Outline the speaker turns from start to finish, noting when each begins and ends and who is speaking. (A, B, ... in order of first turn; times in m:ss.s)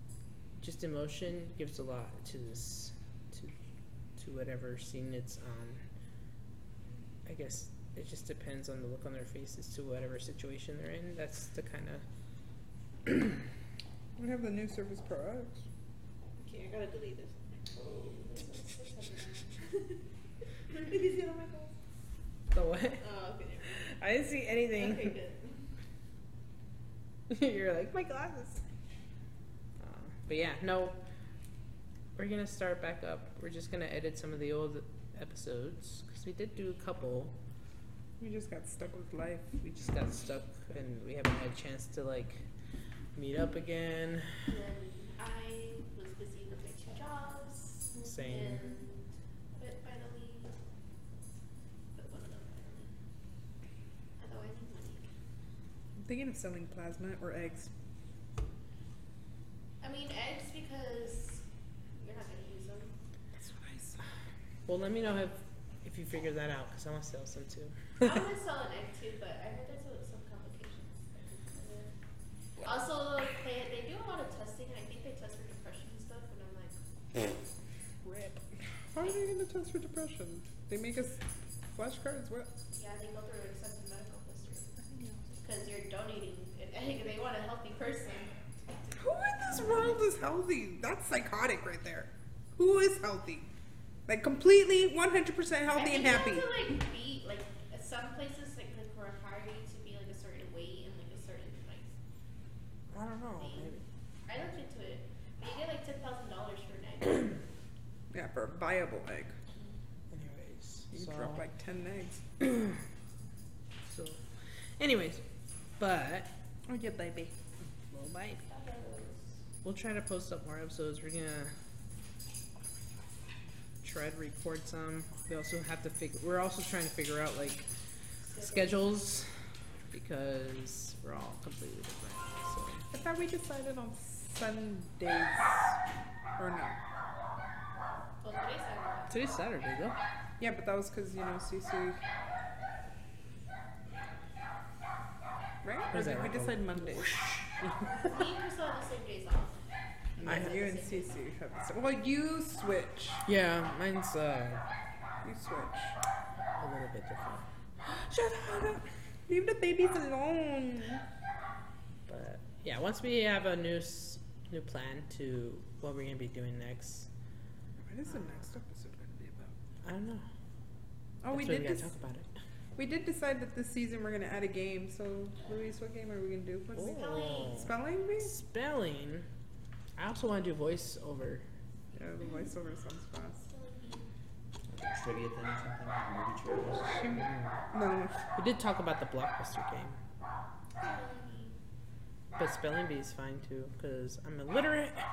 0:00.6-0:03.5 A
0:04.2-0:05.8 A
0:07.3-0:12.0 A
0:13.1-0:13.4 A
0:14.2-0:15.6 B
0:16.4-0:17.4 C
0:17.7-0:19.5 D
0:20.7-0:21.7 C
0:22.5-0:23.1 A
0:23.0-0:23.7 C
0:23.7-0:25.2 A
0:24.7-0:25.6 C
0:27.3-0:28.6 A
0:29.8-0:31.0 A
0:32.2-0:37.3 A
0:38.2-0:39.7 B
0:39.7-0:42.4 A
0:43.2-0:44.3 A
0:44.5-0:50.6 D
0:48.0-0:48.7 A
0:52.0-0:52.9 D
0:54.2-0:55.1 D
0:56.0-0:57.7 B
0:59.8-1:01.4 D
1:02.0-1:02.9 D
1:03.4-1:04.0 B
1:04.7-1:08.1 A
1:08.0-1:11.9 D
1:12.6-1:16.8 D
1:18.0-1:18.4 B
1:18.9-1:22.5 B
1:22.7-1:24.7 D
1:24.8-1:25.4 B
1:25.4-1:28.3 D
1:29.0-1:33.5 B
1:34.1-1:36.5 B
1:35.7-1:41.9 D
1:42.9-1:43.8 A
1:43.4-1:43.8 D
1:44.3-1:47.4 D
1:48.1-1:49.3 B
1:50.1-1:51.4 A
1:50.9-1:52.2 B
1:52.4-1:52.8 A
1:53.8-1:54.2 A
1:54.8-1:55.2 A
1:55.8-1:56.3 A
1:56.7-1:57.3 B
1:57.8-1:58.4 A
1:58.5-1:59.4 D
1:59.6-2:01.5 A
2:03.8-2:07.7 A
2:08.2-2:08.8 D
2:08.4-2:09.3 A
2:09.9-2:12.9 A
2:12.9-2:15.8 B
2:16.4-2:16.8 B
2:18.2-2:19.2 D
2:19.1-2:20.0 A
2:20.4-2:22.0 B
2:25.6-2:27.2 B
2:25.9-2:28.1 A
2:27.9-2:29.7 D
2:30.2-2:33.2 B
2:30.2-2:31.1 D
2:30.3-2:30.6 A
2:33.3-2:34.6 A
2:35.2-2:36.0 B
2:36.6-2:38.9 A
2:39.3-2:41.0 B
2:42.1-2:47.1 A
2:47.8-2:49.6 B
2:49.8-2:50.3 A
2:51.2-2:51.9 B
2:51.3-2:52.3 A
2:52.8-2:58.3 B
2:56.8-2:59.3 A
2:56.8-2:57.7 D
3:00.0-3:01.4 A
3:01.9-3:03.4 B
3:03.4-3:04.1 D
3:04.7-3:07.4 E
3:06.8-3:08.2 B
3:08.4-3:10.0 A
3:10.8-3:11.6 D
3:12.4-3:15.0 A